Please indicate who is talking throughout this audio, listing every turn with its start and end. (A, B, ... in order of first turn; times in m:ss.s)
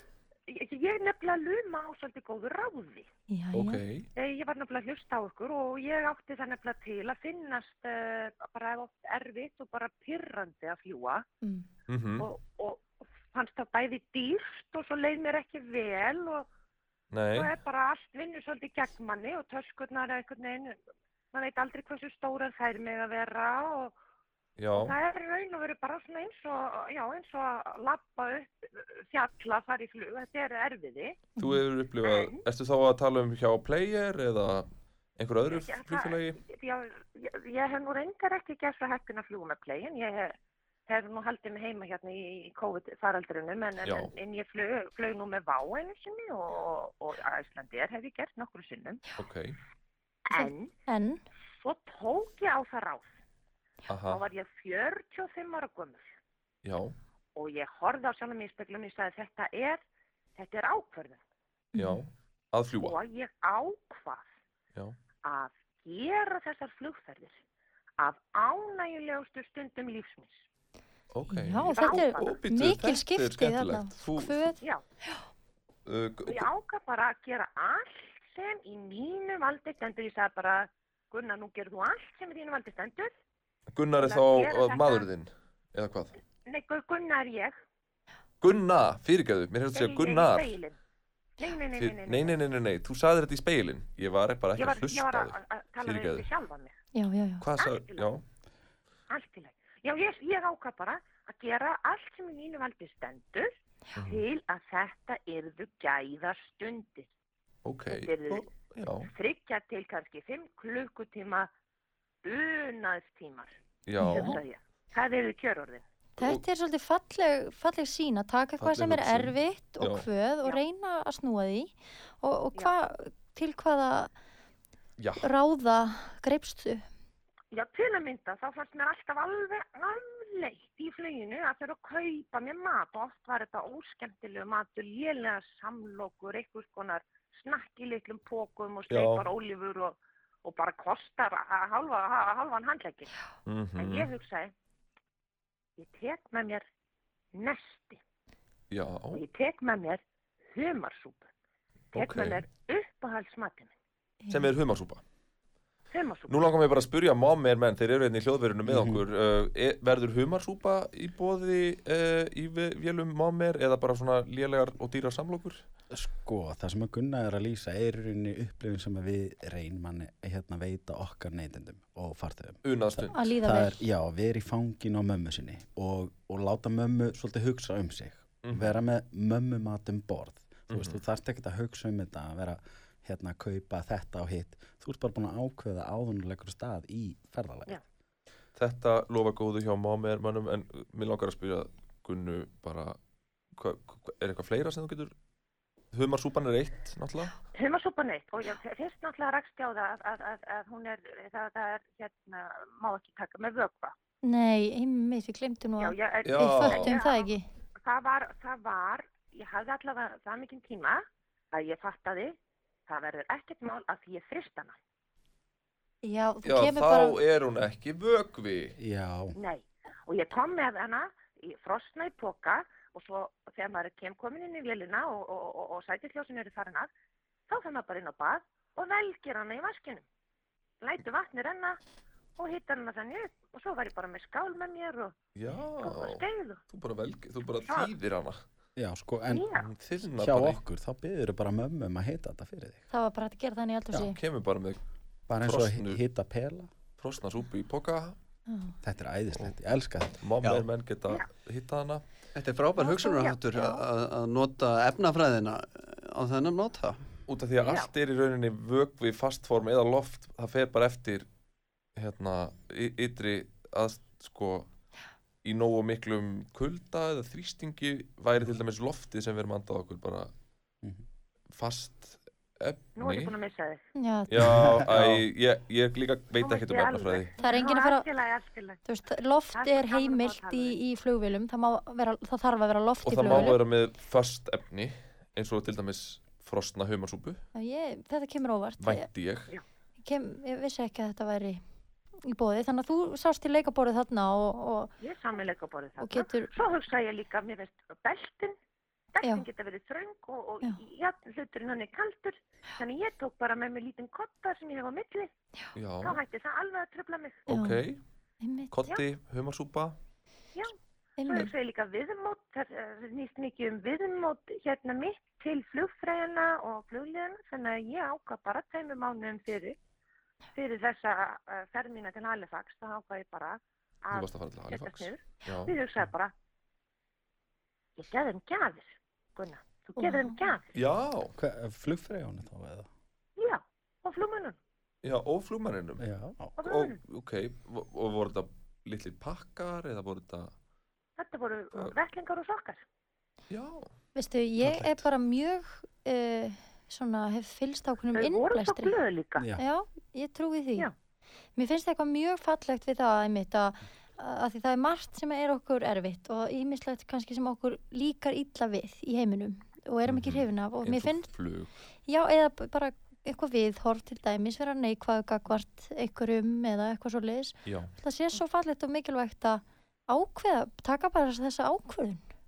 0:00.5-0:03.1 A
0:03.3-0:03.8 B
0:03.5-0:04.1 C
0:04.2-0:11.2 A
0:11.9-0:12.3 C
0:12.2-0:16.5 A
0:17.1-0:17.5 C
0:17.3-0:20.8 A
0:21.3-0:24.0 A
0:24.6-0:25.0 C
0:24.7-0:31.3 A
0:31.4-0:36.4 C
0:32.0-0:32.4 A
0:35.5-0:40.4 A
0:40.9-0:49.0 A
0:43.8-0:44.1 C
0:49.2-0:49.6 C
0:50.3-0:50.7 A
0:50.3-0:51.2 B
0:51.6-0:53.1 A
0:53.9-0:54.2 C
0:54.1-0:56.1 A
0:56.6-0:57.0 C
0:57.4-0:59.8 A
1:00.4-1:01.2 A
1:01.8-1:02.0 B
1:01.8-1:03.0 C
1:02.8-1:04.3 A
1:05.2-1:07.4 A
1:08.0-1:10.4 A
1:11.1-1:14.6 C
1:11.3-1:15.2 B
1:11.7-1:12.3 A
1:15.9-1:16.5 C
1:16.2-1:23.1 A
1:23.7-1:26.2 C
1:24.0-1:25.1 A
1:26.4-1:27.6 A
1:28.4-1:30.6 C
1:29.7-1:30.8 A
1:31.4-1:32.4 A
1:31.7-1:36.3 C
1:34.6-1:36.8 A
1:36.9-1:37.5 B
1:37.4-1:38.2 C
1:37.6-1:38.1 A
1:39.1-1:43.5 A
1:44.0-1:44.2 C
1:44.0-1:47.1 A
1:47.6-1:49.1 C
1:47.9-1:51.5 A
1:52.2-1:55.8 A
1:53.9-1:54.4 C
1:54.0-1:54.4 B
1:56.2-2:04.1 B
1:58.6-2:00.1 C
2:05.0-2:05.3 C
2:05.2-2:06.8 B
2:07.5-2:23.1 A
2:18.9-2:19.3 C
2:23.5-2:24.1 C
2:23.8-2:24.5 A
2:25.8-2:26.6 A
2:27.3-2:28.0 A
2:28.7-2:29.2 C
2:29.1-2:31.3 A
2:31.9-2:32.4 C
2:31.9-2:33.7 A
2:34.3-2:35.0 C
2:35.9-2:36.5 A
2:36.3-2:45.6 C
2:38.7-2:39.0 D
2:45.9-3:07.8 D
2:52.6-2:53.3 C
2:53.1-2:53.8 B
2:58.4-2:58.8 C
3:00.7-3:01.0 C
3:08.6-3:13.0 C
3:13.5-3:15.2 C
3:15.9-3:17.4 C
3:17.6-3:24.0 A
3:24.2-3:27.5 B
3:25.8-3:34.8 A
3:26.2-3:27.0 C
3:36.0-3:37.2 B
3:36.4-3:38.8 C
3:38.8-3:39.4 D
3:39.4-3:46.9 A
3:47.5-3:50.0 A
3:50.8-3:51.8 A
3:52.4-3:55.2 A
3:55.4-3:58.4 C
3:55.8-3:56.6 A
3:57.6-3:57.9 A
3:58.8-3:59.5 D
3:59.3-3:59.7 A
3:59.6-4:00.6 C
4:00.1-4:02.9 D
4:02.9-4:04.2 B
4:04.0-4:06.0 C
4:05.3-4:06.7 D
4:07.0-4:08.2 C
4:08.5-4:08.8 B
4:08.8-4:10.2 D
4:10.1-4:12.0 C
4:10.4-4:10.7 E
4:12.4-4:17.0 E
4:12.8-4:13.4 A
4:17.3-4:21.3 C
4:17.6-4:17.9 A
4:22.0-4:24.7 C
4:25.4-4:30.3 C
4:31.5-4:33.3 C
4:33.0-4:33.8 A
4:34.0-4:34.7 B
4:34.3-4:37.3 C
4:34.4-4:35.2 D
4:36.4-4:38.8 A
4:37.4-4:38.1 B
4:38.8-4:43.6 B
4:39.5-4:40.8 A
4:43.0-4:47.4 C
4:47.6-4:49.1 B
4:48.8-4:49.6 C
4:50.0-4:51.6 B
4:52.2-4:54.9 B
4:55.0-4:58.6 A
4:56.0-4:56.5 B
4:59.1-5:05.3 A
5:05.8-5:06.2 C
5:06.0-5:07.5 A
5:07.5-5:08.0 C
5:07.5-5:07.8 B
5:08.4-5:08.7 B
5:08.7-5:10.0 C
5:11.2-5:11.5 B
5:11.2-5:19.8 A
5:20.5-5:26.3 A
5:24.1-5:25.8 C
5:28.0-5:30.7 A
5:30.0-5:30.4 B
5:30.7-5:31.3 C
5:31.3-5:32.9 D
5:33.4-5:34.6 A
5:35.0-5:36.0 C
5:36.0-5:36.6 D
5:36.6-5:37.0 A
5:36.6-5:40.5 C
5:41.2-5:42.8 A
5:43.5-5:43.9 C
5:44.2-5:49.0 B
5:44.6-5:45.0 D
5:48.1-5:49.5 A
5:49.4-5:49.6 D
5:49.6-5:50.9 B
5:51.6-6:01.3 B
6:00.1-6:01.7 C
6:02.1-6:12.2 B
6:07.6-6:07.9 C